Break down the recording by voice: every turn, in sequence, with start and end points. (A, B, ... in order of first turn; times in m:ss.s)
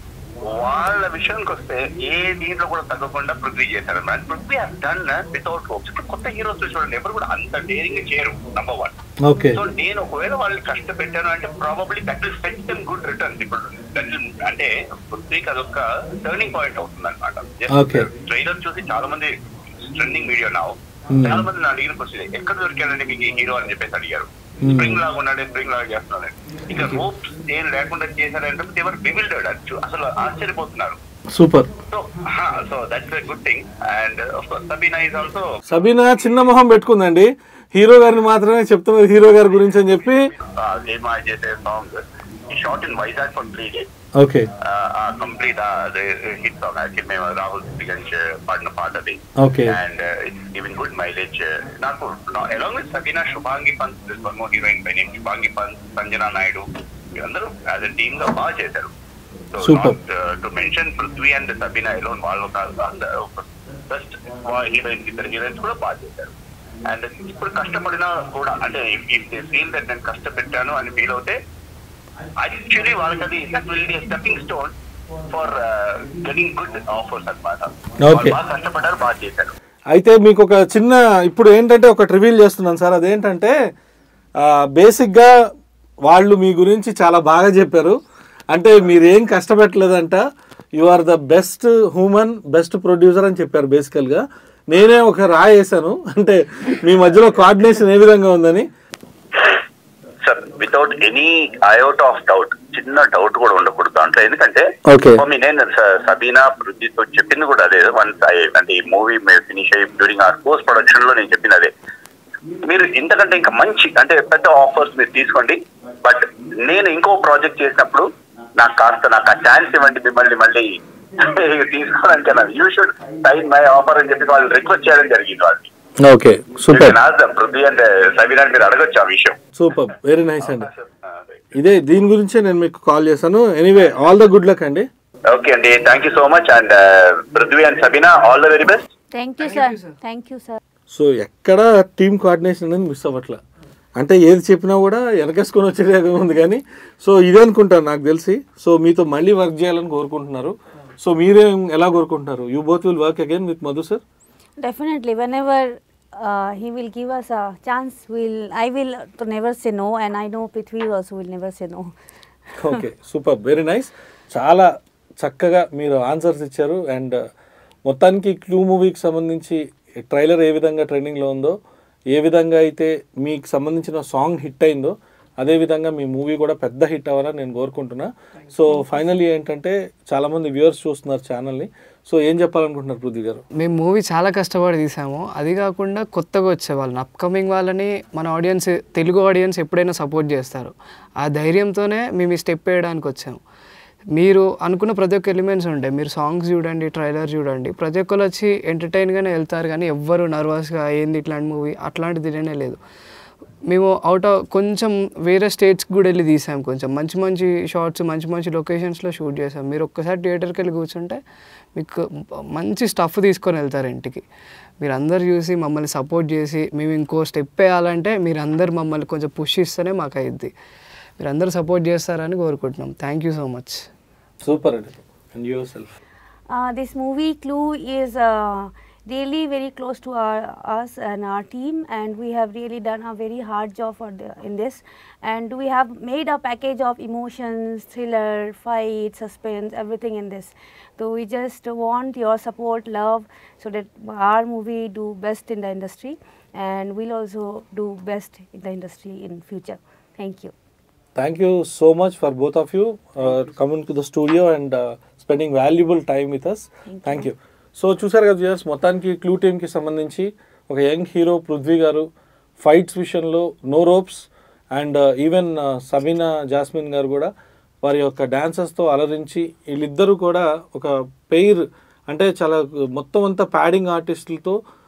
0:00.5-0:09.0 A
0:09.2-0:09.6 B
0:09.5-0:19.3 A
0:17.7-0:18.1 B
0:19.9-0:31.0 A
0:21.1-0:21.5 B
0:24.6-0:25.0 B
0:31.3-0:31.7 B
0:31.9-0:35.5 A
0:35.7-0:40.2 B
0:40.3-0:43.9 A
0:44.2-0:44.5 B
0:44.6-0:56.7 A
0:49.4-0:49.8 B
0:57.2-0:58.9 A
0:59.5-1:06.3 A
0:59.6-1:00.0 B
1:06.9-1:11.4 A
1:12.4-1:14.7 A
1:15.3-1:19.5 A
1:18.0-1:18.4 B
1:19.9-1:23.5 B
1:24.4-1:25.3 B
1:26.0-1:28.0 B
1:28.5-1:30.2 B
1:30.8-1:38.7 B
1:40.2-1:51.7 A
1:44.9-1:45.2 B
1:52.6-2:05.7 A
2:06.0-2:07.0 B
2:06.7-2:09.4 A
2:09.6-2:10.7 B
2:10.4-2:11.4 A
2:11.5-2:14.9 B
2:15.3-2:18.8 A
2:19.1-2:20.6 C
2:19.4-2:20.0 D
2:20.9-2:23.4 B
2:24.0-2:34.0 B
2:34.6-2:41.9 C
2:42.6-2:44.7 B
2:45.2-2:47.2 B
2:47.9-2:51.6 B
2:52.1-3:03.4 B
3:03.6-3:13.4 D
3:14.2-3:22.8 D
3:23.7-3:31.2 D
3:31.8-3:32.0 D
3:32.6-3:34.2 D
3:34.8-3:40.5 D
3:41.2-3:43.8 D
3:44.4-3:46.0 B
3:46.5-4:10.5 C
4:11.2-4:22.1 B
4:16.9-4:17.3 C
4:22.6-4:27.3 B
4:27.8-4:34.6 B